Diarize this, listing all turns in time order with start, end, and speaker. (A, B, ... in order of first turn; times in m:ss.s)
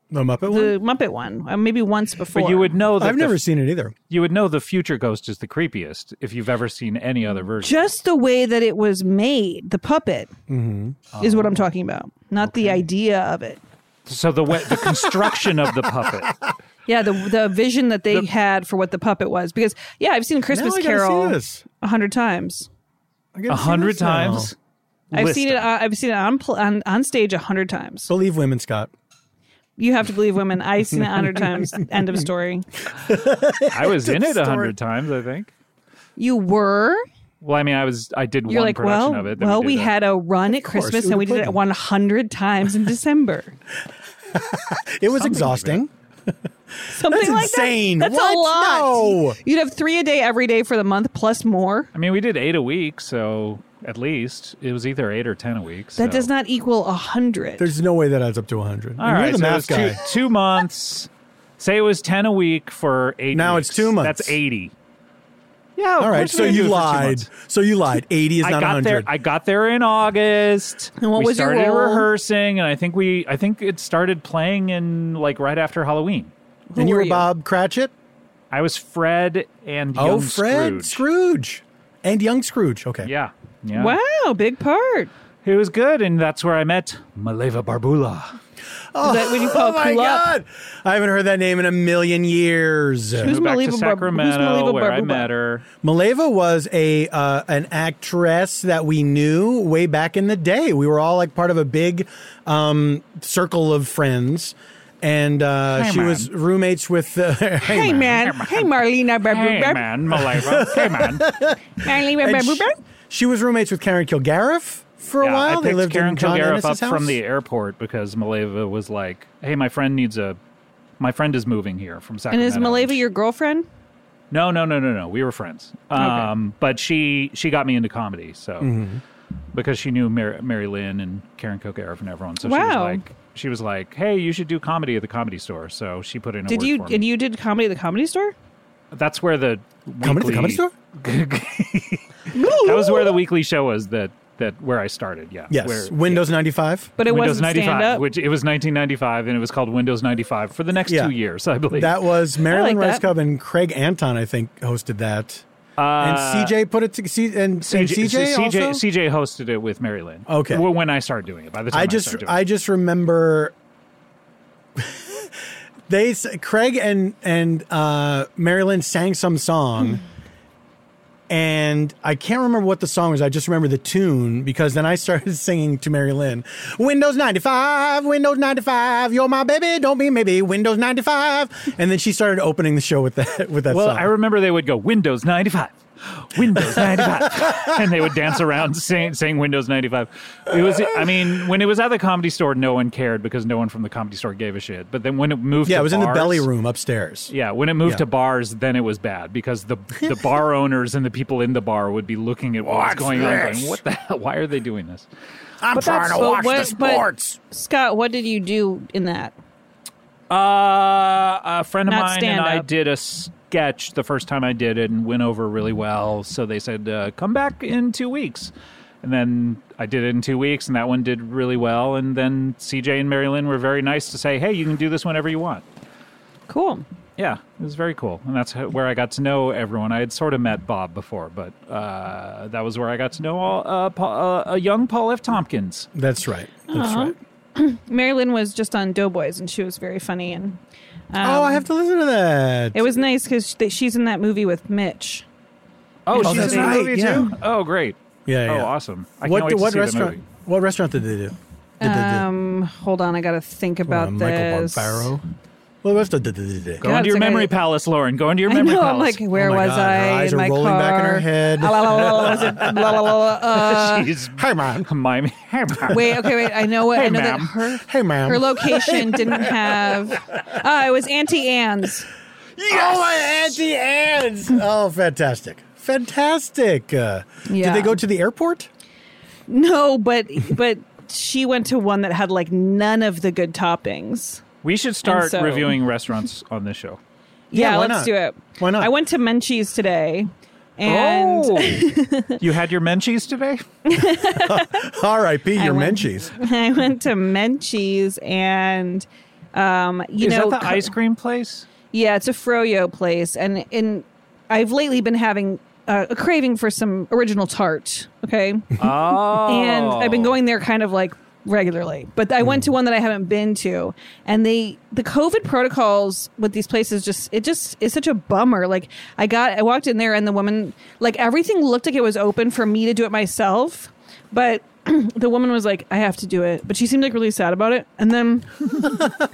0:00.1-0:00.8 A
0:00.5-0:02.8 B
0:02.3-0:03.4 C
0:03.0-0:03.9 A
0:04.1-0:07.9 C
0:07.6-0:10.3 B
0:10.5-0:11.5 A
0:11.2-0:13.6 B
0:12.4-0:12.8 C
0:14.1-0:16.3 C
0:14.7-0:15.3 A
0:16.9-0:22.7 B
0:20.5-0:21.6 A
0:23.3-0:24.5 A
0:23.5-0:24.5 C
0:25.1-0:25.7 C
0:25.1-0:28.1 B
0:28.1-0:28.9 A
0:29.8-0:32.7 B
0:31.0-0:31.8 A
0:33.0-0:34.7 A
0:33.7-0:35.5 C
0:36.2-0:37.0 B
0:37.4-0:39.9 C
0:38.5-0:43.6 B
0:40.6-0:41.6 A
0:44.3-0:45.9 A
0:45.1-0:45.8 C
0:46.9-0:51.9 B
0:47.0-0:49.4 A
0:51.9-0:56.3 C
0:56.0-0:57.7 B
0:57.6-1:00.0 A
0:59.0-1:04.7 C
1:03.3-1:04.4 A
1:05.8-1:07.3 C
1:06.0-1:09.1 A
1:08.4-1:16.3 C
1:11.0-1:12.1 B
1:16.7-1:17.3 B
1:16.8-1:17.9 A
1:18.5-1:21.0 C
1:19.9-1:23.1 A
1:23.0-1:24.0 C
1:23.7-1:25.1 B
1:25.4-1:28.4 C
1:28.9-1:33.3 A
1:29.0-1:30.3 B
1:33.2-1:35.6 C
1:33.2-1:35.3 B
1:35.8-1:48.2 A
1:45.7-1:46.3 C
1:47.6-1:49.8 B
1:48.2-1:51.3 C
1:50.2-1:57.2 A
1:51.8-1:52.7 B
1:55.2-2:00.4 C
2:01.0-2:03.0 C
2:02.3-2:03.7 B
2:04.3-2:08.7 C
2:05.9-2:06.3 B
2:08.6-2:09.0 A
2:09.5-2:17.0 C
2:12.4-2:13.0 B
2:16.5-2:18.3 B
2:18.9-2:26.3 C
2:20.0-2:20.7 A
2:22.3-2:23.2 B
2:25.5-2:26.9 A
2:27.0-2:28.0 B
2:27.0-2:31.9 C
2:30.9-2:31.1 A
2:31.7-2:35.4 A
2:32.5-2:33.1 B
2:35.8-2:36.6 C
2:36.0-2:38.8 A
2:37.6-2:42.4 C
2:40.3-2:40.6 A
2:41.7-2:43.5 A
2:44.8-2:45.3 A
2:45.9-2:50.0 A
2:51.3-3:04.1 A
3:03.7-3:16.5 C
3:06.7-3:07.5 A
3:15.6-3:17.3 A
3:17.3-3:25.1 C
3:22.6-3:23.8 A
3:25.6-3:27.4 A
3:25.8-3:29.3 B
3:30.3-3:45.6 C
3:31.9-3:32.6 B
3:46.5-3:46.8 B
3:47.2-3:55.9 C
3:55.9-3:57.1 A
3:56.7-4:00.6 B
4:01.1-4:01.6 B
4:01.2-4:02.9 A
4:02.7-4:05.2 B
4:06.0-4:10.2 C
4:06.1-4:06.8 B
4:06.2-4:07.3 A
4:08.2-4:12.3 A
4:11.8-4:15.1 B
4:13.8-4:15.2 A
4:15.8-4:16.8 A
4:16.8-4:19.2 C
4:16.8-4:17.5 B
4:18.5-4:24.1 B
4:19.3-4:22.9 A
4:23.5-4:27.6 C
4:24.3-4:24.9 A
4:25.9-4:32.1 B
4:27.9-4:29.9 A
4:32.6-4:33.0 C
4:32.6-4:38.7 A
4:37.4-4:38.0 B
4:39.5-4:44.4 B
4:44.6-4:47.0 C
4:45.0-4:45.8 B
4:47.5-4:52.4 B
4:47.5-4:48.9 A
4:50.8-4:53.6 C
4:53.8-4:54.8 B
4:54.4-4:56.3 A
4:55.6-5:00.9 B
5:00.2-5:01.7 C
5:01.9-5:08.8 B
5:08.8-5:10.4 C
5:09.3-5:29.1 B